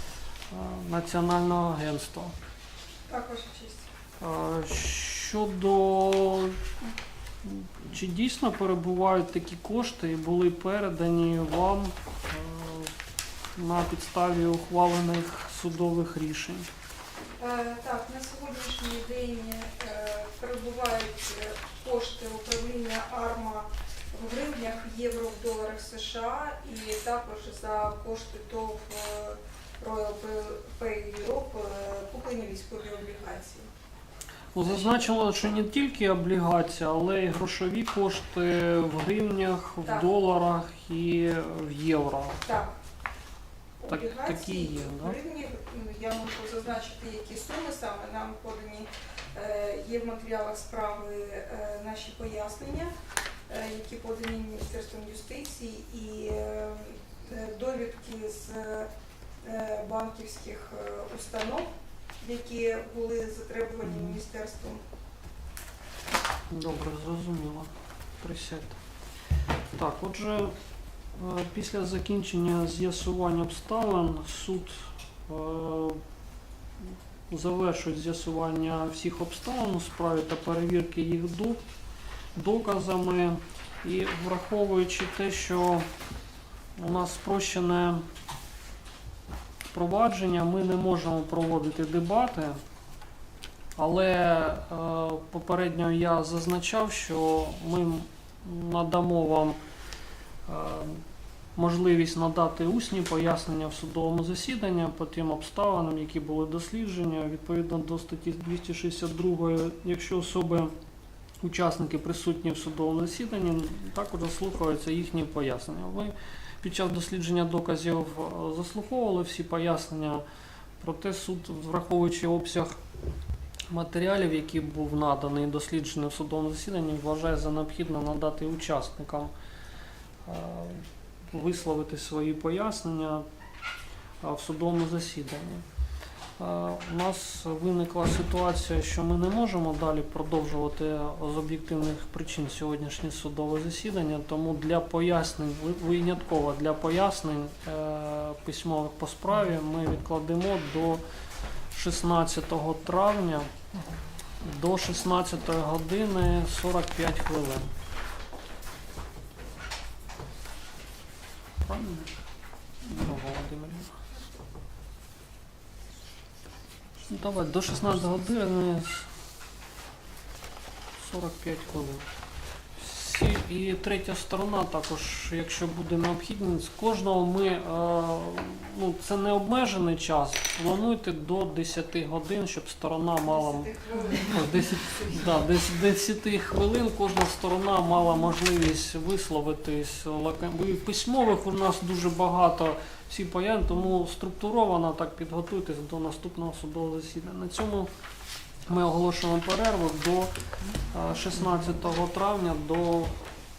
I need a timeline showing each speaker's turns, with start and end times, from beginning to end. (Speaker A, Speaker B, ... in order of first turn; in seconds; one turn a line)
Speaker A: 0.5-2.4
Speaker B: 3.1-3.9
Speaker A: 4.2-6.6
Speaker A: 7.4-12.9
Speaker A: 13.6-16.7
Speaker B: 17.4-33.7
Speaker A: 34.5-42.4
Speaker B: 42.4-42.7
Speaker B: 43.8-52.9
Speaker A: 43.9-45.2
Speaker B: 53.5-58.9
Speaker B: 59.4-64.8
Speaker A: 63.8-64.2
Speaker A: 66.5-67.7
Speaker A: 68.2-68.8
Speaker A: 69.8-70.5
Speaker A: 71.2-76.0
Speaker A: 76.9-81.6
Speaker A: 82.3-85.9
Speaker A: 86.8-88.0
Speaker A: 89.7-92.6
Speaker A: 93.8-99.6
Speaker A: 100.5-101.0
Speaker A: 101.6-110.7
Speaker A: 111.4-120.2
Speaker A: 120.8-122.8
Speaker A: 123.7-129.3
Speaker A: 130.3-133.2
Speaker A: 134.2-135.7
Speaker A: 136.4-151.0
Speaker A: 151.7-153.5
Speaker A: 154.4-157.7
Speaker A: 161.6-162.1
Speaker A: 162.8-163.9
Speaker A: 167.1-169.1
Speaker A: 171.0-172.1
Speaker A: 172.8-197.9
Speaker B: 183.2-185.2
Speaker A: 198.7-200.3
Speaker A: 200.9-203.1